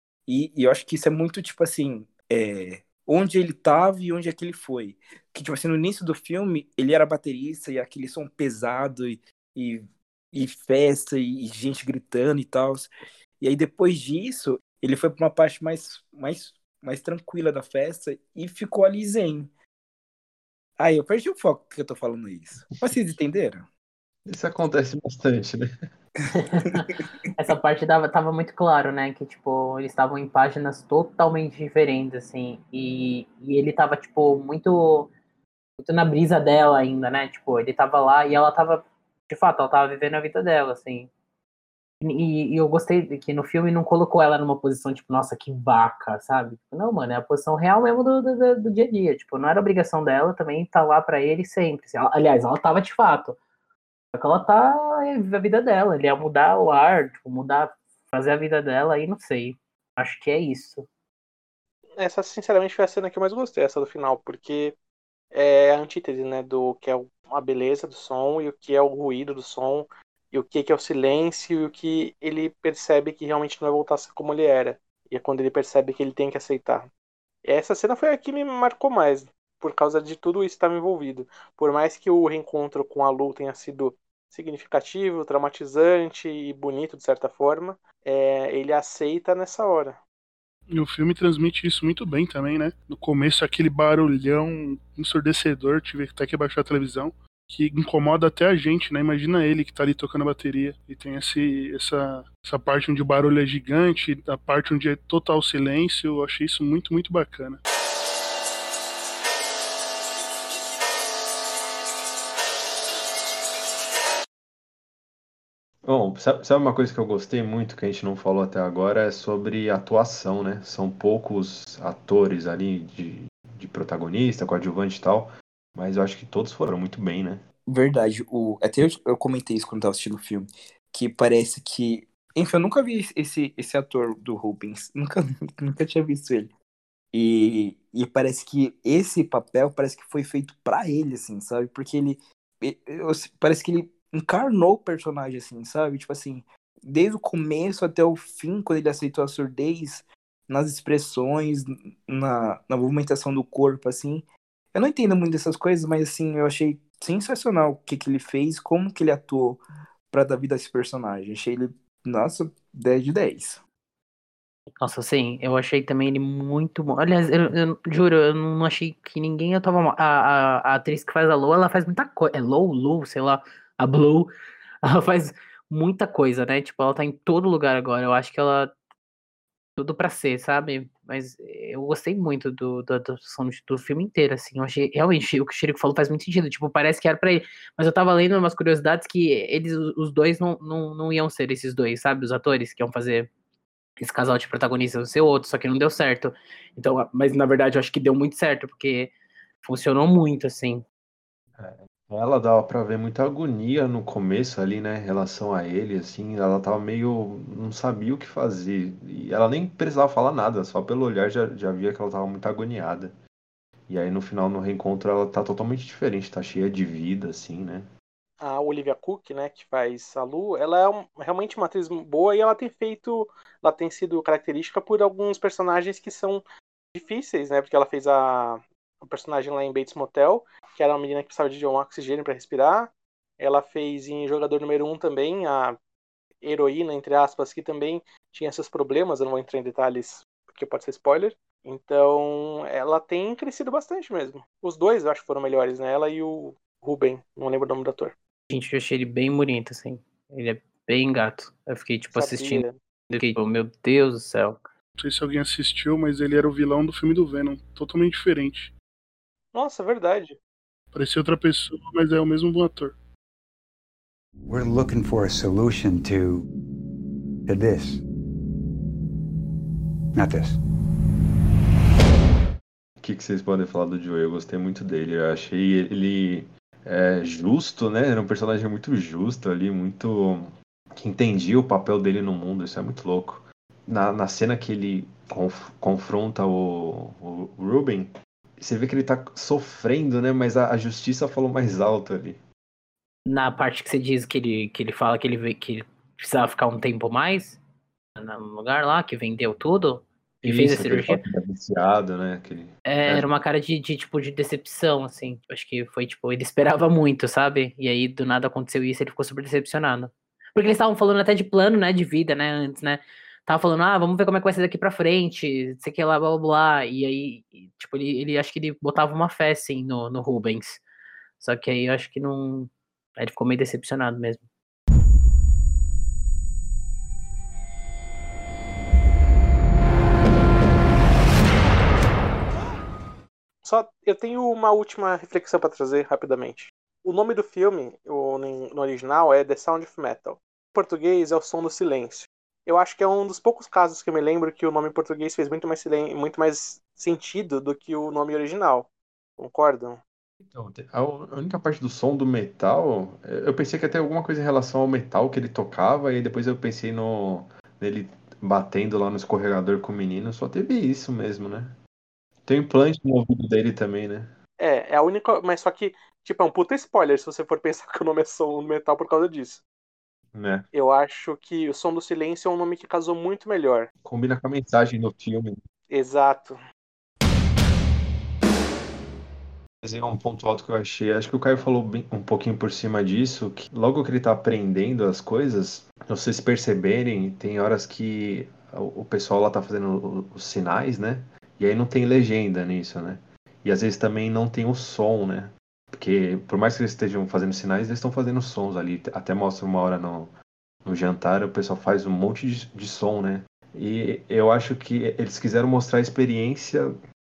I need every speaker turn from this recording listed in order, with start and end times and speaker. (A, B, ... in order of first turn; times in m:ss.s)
0:00.3-0:19.5 A
0:20.8-0:23.7 A
0:24.3-0:25.7 B
0:26.3-0:35.1 C
0:35.8-0:41.1 C
0:42.0-0:53.4 C
0:54.2-1:00.8 C
1:02.0-1:04.8 D
1:05.3-1:16.9 D
1:17.4-1:30.0 D
1:30.7-1:47.6 E
1:55.8-2:07.4 B
2:07.7-2:16.5 A
2:17.1-2:43.6 A
2:44.8-2:54.3 C
2:54.8-2:58.7 C
2:59.8-3:13.3 C
3:14.0-3:19.1 C
3:19.6-3:20.8 C
3:21.6-3:33.1 B
3:33.9-3:37.9 B
3:38.4-3:46.4 D
3:46.9-3:55.8 D
3:56.4-4:08.2 D
4:08.5-4:14.6 C
4:12.1-4:12.8 D
4:15.0-4:18.7 E
4:19.5-4:20.4 D
4:20.9-4:23.0 E
4:24.5-4:26.4 F
4:27.5-4:28.0 F
4:30.2-4:30.6 F
4:33.0-4:52.4 B
4:53.3-4:57.6 C
4:58.2-5:01.2 C
5:00.4-5:03.3 B
5:02.9-5:20.8 C
5:21.4-5:24.4 C
5:33.6-5:50.0 D
5:50.4-6:01.8 B
6:02.4-6:04.3 B
6:04.6-6:09.6 D
6:10.3-6:10.7 B
6:10.7-6:13.9 D
6:14.0-6:15.6 B
6:15.9-6:16.6 D
6:19.8-6:40.3 B
6:40.8-6:46.9 B